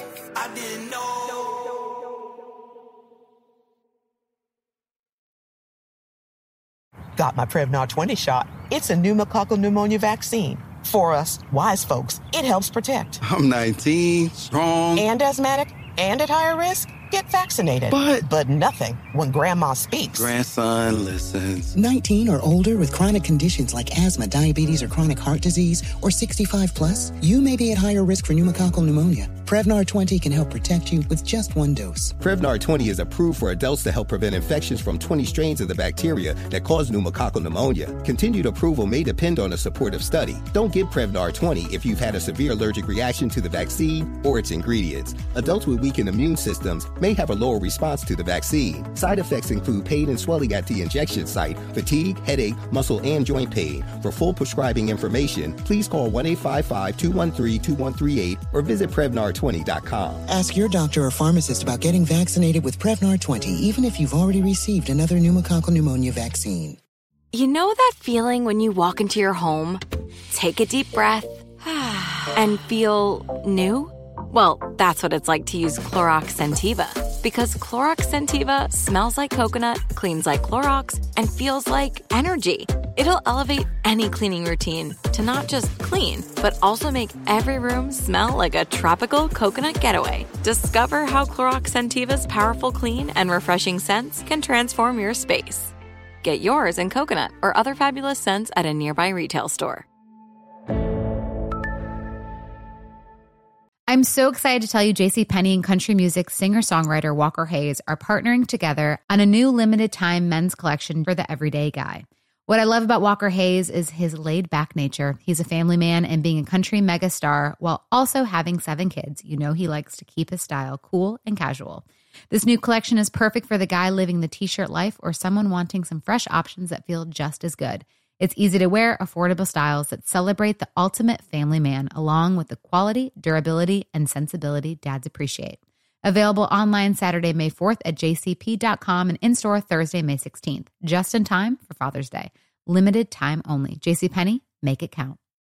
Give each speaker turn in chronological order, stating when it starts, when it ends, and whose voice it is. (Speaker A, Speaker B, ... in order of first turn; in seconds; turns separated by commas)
Speaker A: 7.2-13.2, Speaker B: 13.2-15.1, Speaker A: 15.0-20.3, Speaker B: 17.9-18.2, Speaker B: 20.1-21.7, Speaker C: 21.7-32.1, Speaker D: 32.2-60.2, Speaker C: 60.3-66.8, Speaker E: 67.3-99.8, Speaker F: 103.9-145.2